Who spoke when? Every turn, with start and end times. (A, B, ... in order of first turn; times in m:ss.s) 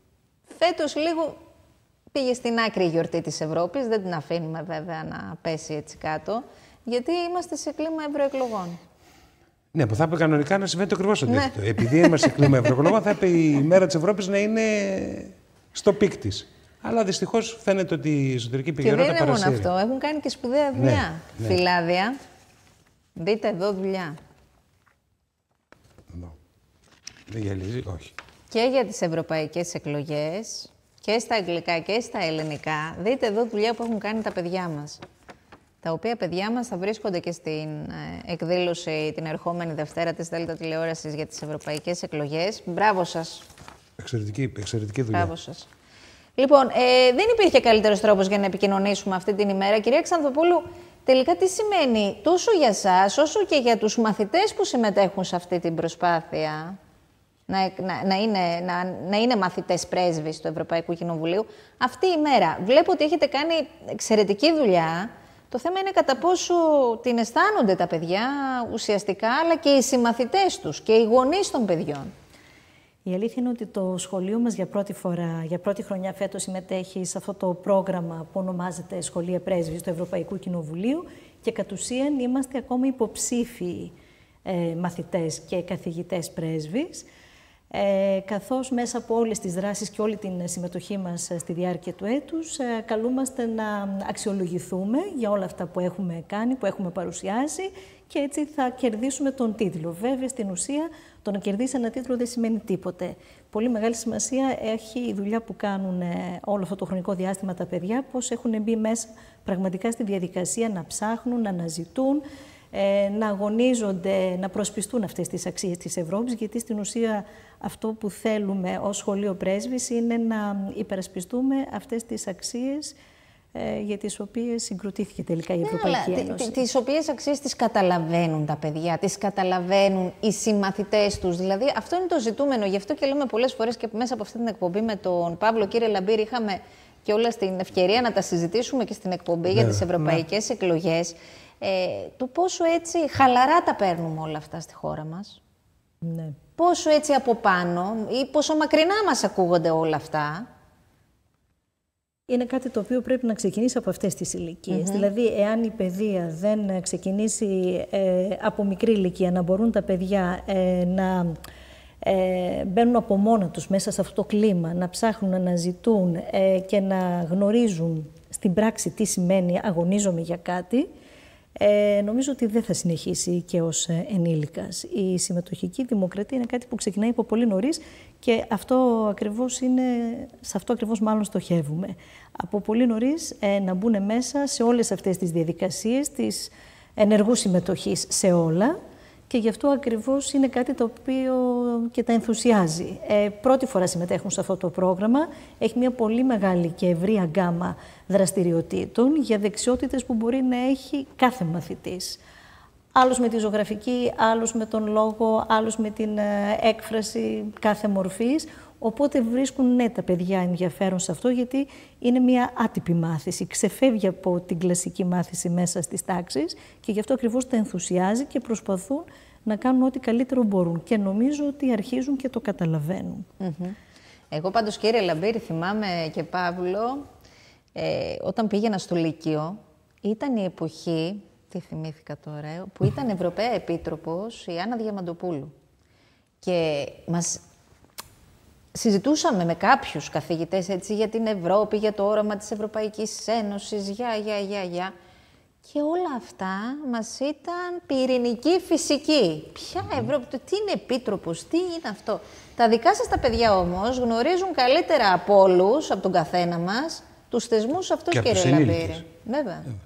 0:00.5-0:01.4 A
0:02.1-0:08.8 A
0:09.7-0:19.7 B
0:11.3-0:12.6 A
0:18.8-0:22.2 A
0:20.8-0:21.6 B
0:23.2-0:24.2 A
0:27.3-0:28.1 B
0:28.5-0:35.0 A
0:35.8-0:43.5 A
0:44.0-0:45.3 B
0:45.1-0:45.7 A
0:46.4-0:56.8 A
0:57.5-1:12.1 A
1:13.1-1:24.0 C
1:24.5-1:27.1 C
1:27.7-2:03.0 C
2:03.5-2:06.6 C
2:05.6-2:25.4 A
2:19.5-2:19.9 B
2:26.0-2:26.4 C
2:26.6-2:30.5 A
2:32.3-2:41.4 C
2:34.7-2:35.1 A
2:42.0-2:50.9 C
2:51.6-3:08.8 C
3:09.3-3:22.2 C
3:23.0-3:43.3 C
3:43.4-3:43.8 A
3:44.3-3:47.1 A
3:47.8-3:55.5 A
3:56.4-3:57.4 A
3:58.7-4:04.9 A
4:05.6-4:19.7 A
4:18.1-4:19.0 B